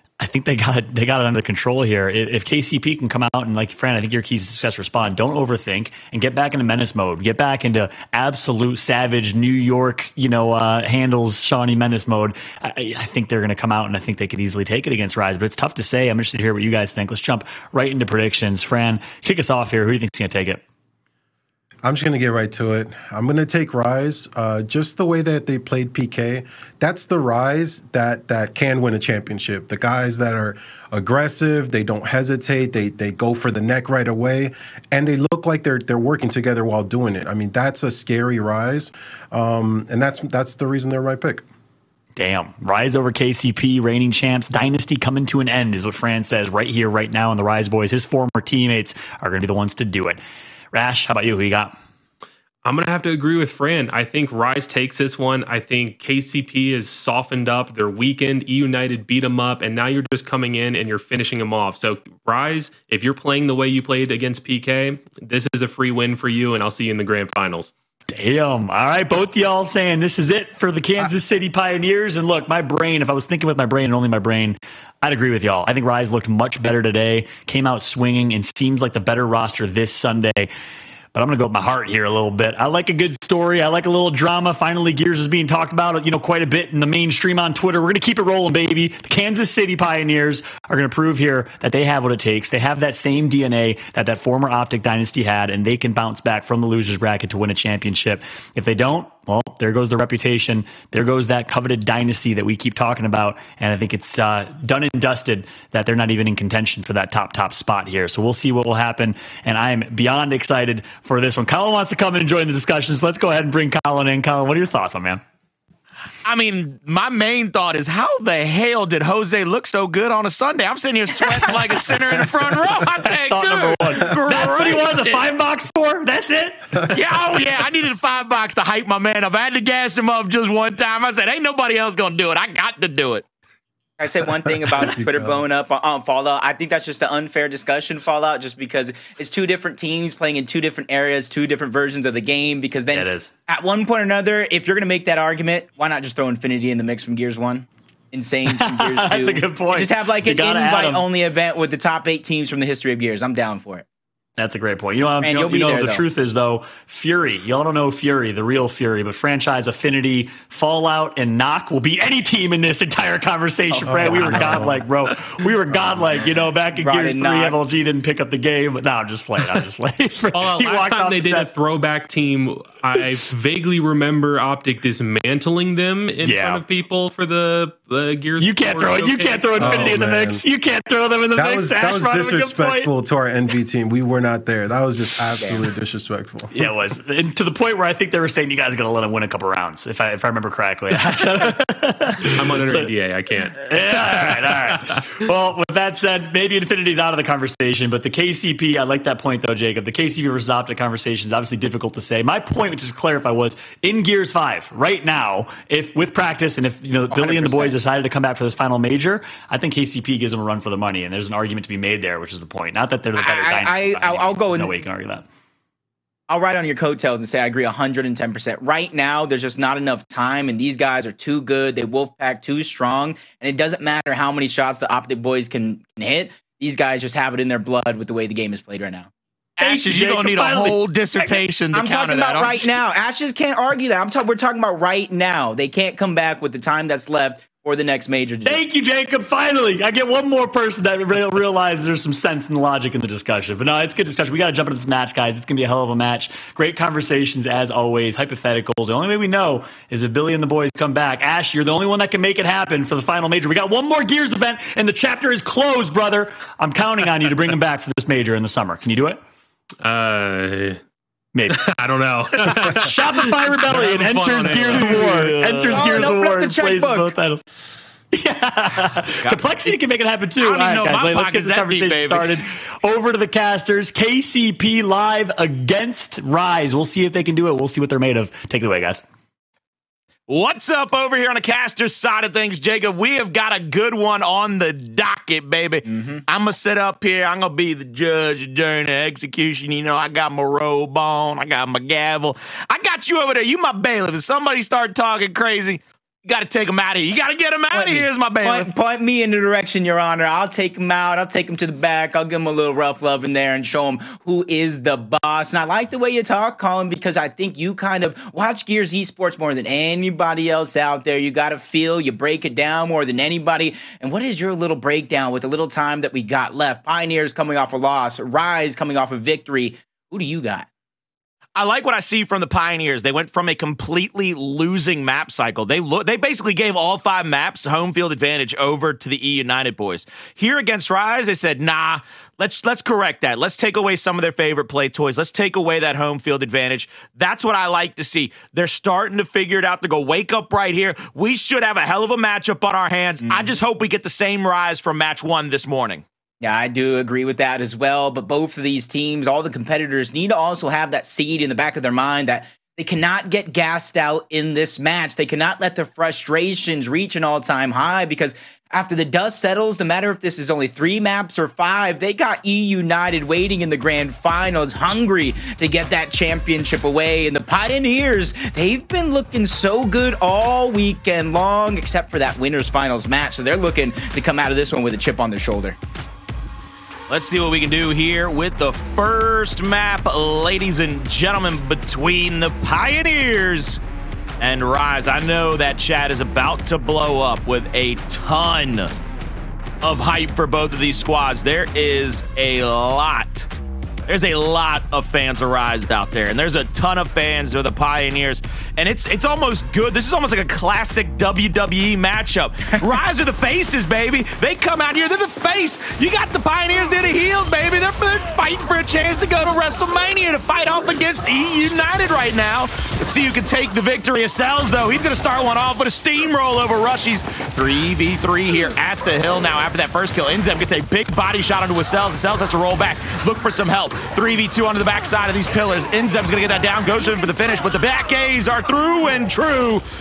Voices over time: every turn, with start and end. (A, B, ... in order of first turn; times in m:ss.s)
0:00.2-0:20.6 A
0:21.8-0:41.4 B
0:42.2-0:50.2 A
0:50.7-0:51.7 A
0:52.6-1:07.7 C
1:08.1-1:20.5 A
1:21.1-1:55.2 A
1:56.2-2:05.2 D
2:03.2-2:07.0 A
2:06.9-2:13.2 D
2:14.0-2:33.8 E
2:14.6-2:15.4 B
2:22.9-2:23.3 A
2:28.5-2:31.1 A
2:34.4-2:51.5 A
2:35.2-2:36.0 E
2:43.8-2:44.8 B
2:44.0-2:44.4 E
2:46.7-2:47.6 E
2:50.2-3:00.0 C
2:56.2-2:56.6 A
2:58.4-3:02.9 A
2:59.6-3:00.4 B
3:01.3-3:06.5 B
3:06.5-3:12.9 A
3:12.2-3:15.0 C
3:13.5-3:35.2 A
3:27.1-3:27.7 E
3:33.2-3:34.7 E
3:36.3-3:49.1 E
3:49.6-3:52.7 D
3:49.6-3:51.4 A
3:51.7-3:58.6 E
3:58.4-4:19.2 A
4:19.8-4:20.8 C
4:21.3-4:21.7 A
4:21.5-4:25.4 C
4:22.4-4:27.4 A
4:25.0-4:25.7 D
4:25.7-4:27.1 E
4:28.1-4:39.0 A
4:29.2-4:29.7 D
4:30.4-4:32.4 D
4:40.3-4:58.7 D
4:45.8-4:46.2 E
4:57.7-5:20.7 E
5:21.6-5:46.0 D
5:43.3-5:43.6 E
5:46.4-6:15.8 E
6:17.1-6:23.8 D
6:24.4-6:28.9 D
6:29.8-6:33.5 D
6:34.1-7:09.8 D